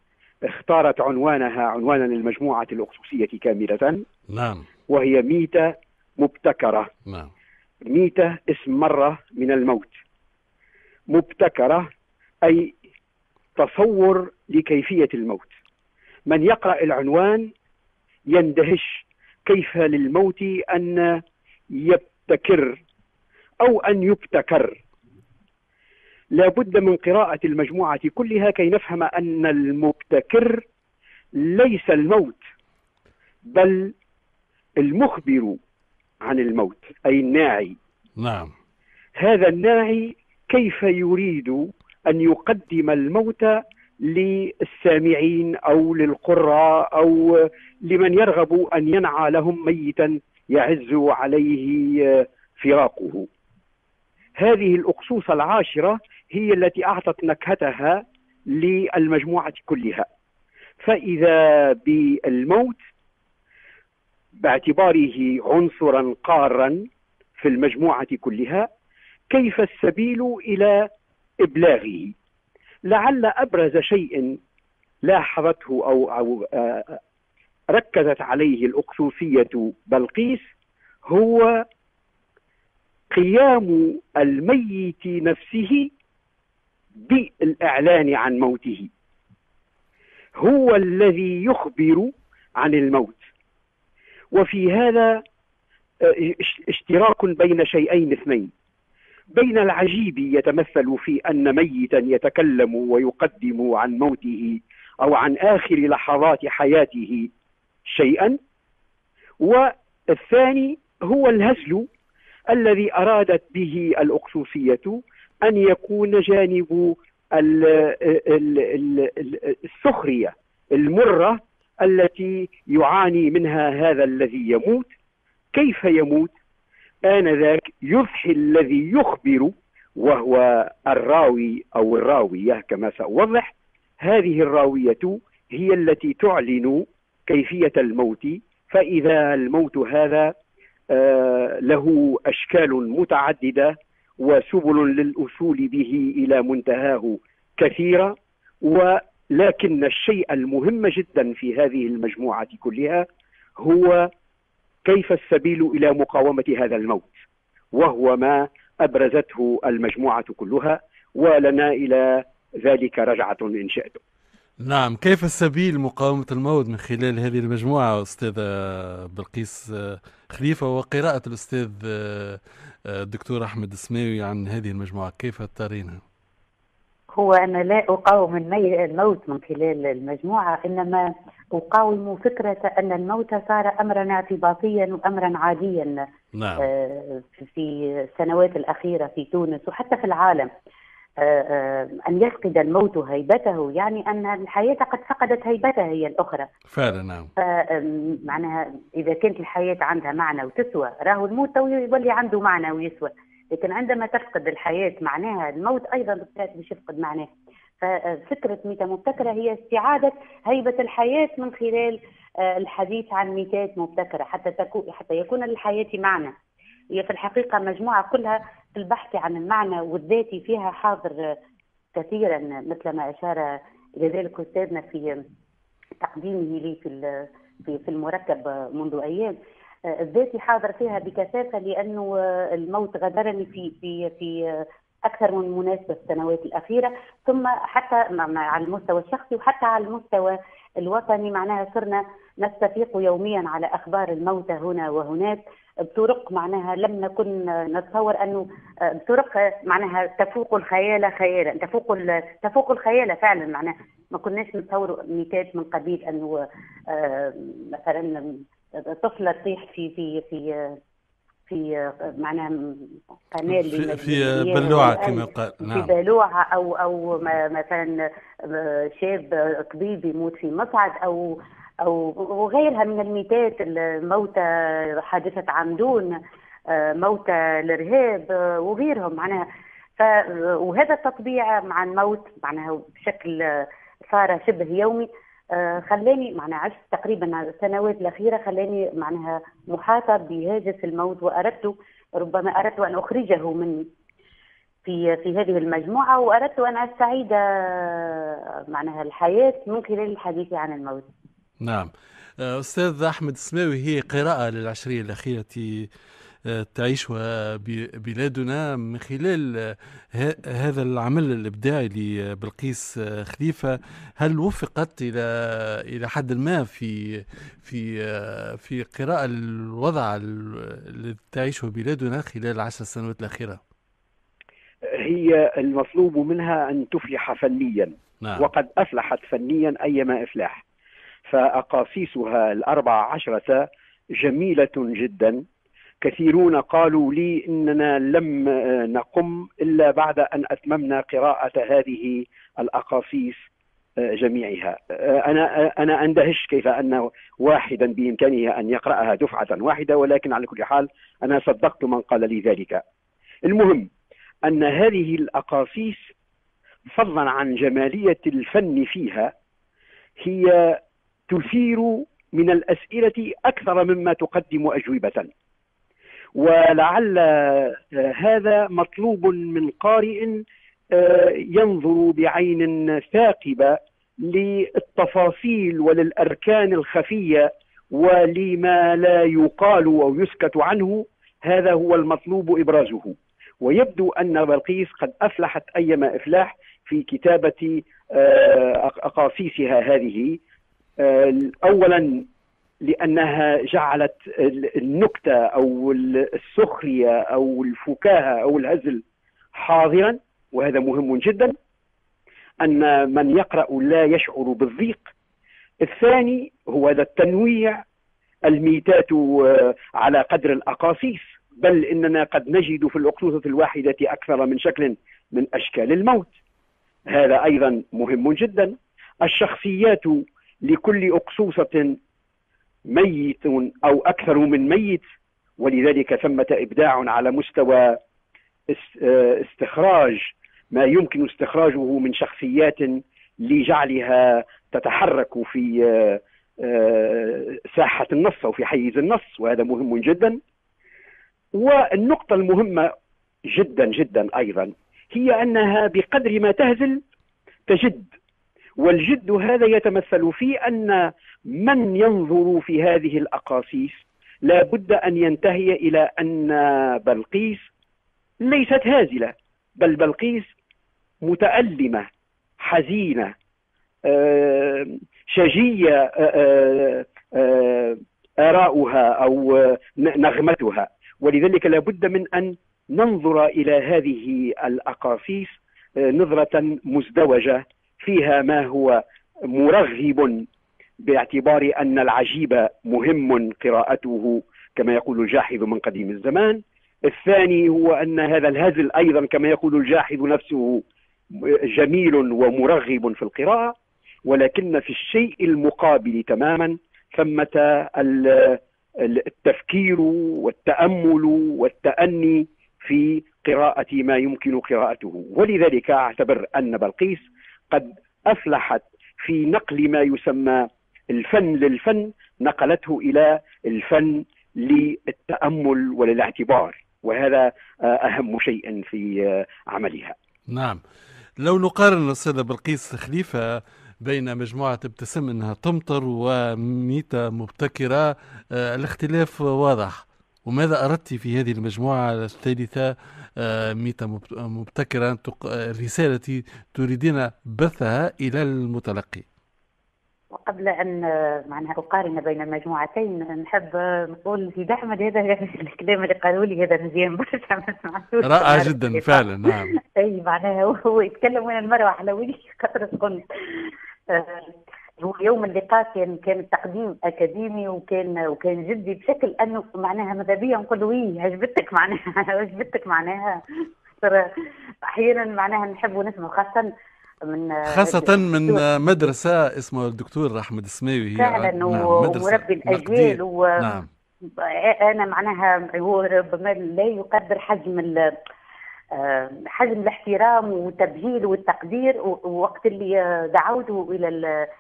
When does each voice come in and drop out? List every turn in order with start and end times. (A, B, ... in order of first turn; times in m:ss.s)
0:00.4-0:04.0 A
0:04.3-0:04.7 B
0:04.9-0:06.9 A
0:07.9-0:10.0 A
0:11.1-0:11.9 A
0:12.4-0:12.8 A
0:13.6-0:15.6 A
0:16.3-0:17.5 A
0:18.3-0:22.8 A
0:23.6-0:24.8 A
0:26.3-0:30.6 A
0:31.4-0:32.5 A
0:33.4-0:33.9 A
0:34.8-0:35.6 A
0:36.2-0:37.8 A
0:38.2-0:38.5 B
0:39.2-0:53.3 A
0:54.4-1:00.1 A
1:00.8-1:02.8 A
1:04.4-1:06.9 A
1:07.4-1:08.7 A
1:09.3-1:10.9 A
1:11.4-1:12.1 A
1:12.8-1:14.4 A
1:15.0-1:17.0 A
1:17.7-1:20.5 A
1:21.1-1:21.6 A
1:23.1-1:25.9 A
1:27.0-1:28.9 A
1:30.4-1:33.3 A
1:34.3-1:35.2 A
1:36.0-1:38.5 A
1:39.3-1:47.3 A
1:47.9-1:48.4 A
1:49.4-1:51.9 A
1:52.5-2:04.9 A
2:05.5-2:06.3 A
2:07.0-2:20.3 A
2:20.9-2:33.1 A
2:33.6-2:34.1 A
2:34.8-2:37.2 A
2:37.7-2:44.0 A
2:44.6-2:56.0 B
2:57.2-3:06.0 C
3:06.4-3:06.7 B
3:06.6-3:10.5 C
3:11.2-3:16.5 C
3:16.7-3:17.3 B
3:17.4-3:27.3 C
3:27.8-3:36.3 C
3:36.9-3:41.2 C
3:42.0-3:45.2 C
3:46.0-3:49.3 C
3:49.9-4:20.8 C
4:21.5-4:36.1 C
4:23.5-4:25.9 B
4:36.7-4:39.4 C
4:40.0-4:53.8 C
4:54.8-5:01.1 C
5:01.6-5:05.9 B
5:06.5-5:23.6 B
5:24.8-5:30.6 A
5:31.3-5:35.4 A
5:36.0-5:43.5 A
5:44.0-5:52.8 A
5:53.5-5:53.9 A
5:54.5-5:56.1 A
5:56.9-5:59.3 A
6:00.2-6:05.3 A
6:06.4-6:30.4 A
6:31.0-6:32.3 A
6:32.8-6:39.0 A
6:39.5-6:41.6 A
6:42.6-6:45.1 A
6:45.8-6:47.8 A
6:48.5-6:56.3 A
6:57.1-7:02.0 A
7:02.9-7:05.0 A
7:05.6-7:08.0 A
7:08.7-7:20.4 A
7:21.6-7:22.9 A
7:23.5-7:27.0 A
7:27.7-7:28.1 A
7:28.8-7:37.7 A
7:38.4-7:40.5 A
7:41.2-7:42.1 A
7:42.6-7:43.3 A
7:44.1-8:00.5 A
8:01.0-8:13.8 A
8:14.3-8:40.2 A
8:40.5-8:40.8 B
8:41.4-8:59.2 B
9:00.3-9:23.4 C
9:08.2-9:09.7 B
9:24.9-9:26.7 C
9:27.3-9:28.6 C
9:27.7-9:33.9 B
9:31.2-9:33.5 C
9:34.4-9:38.0 C
9:39.0-9:44.2 C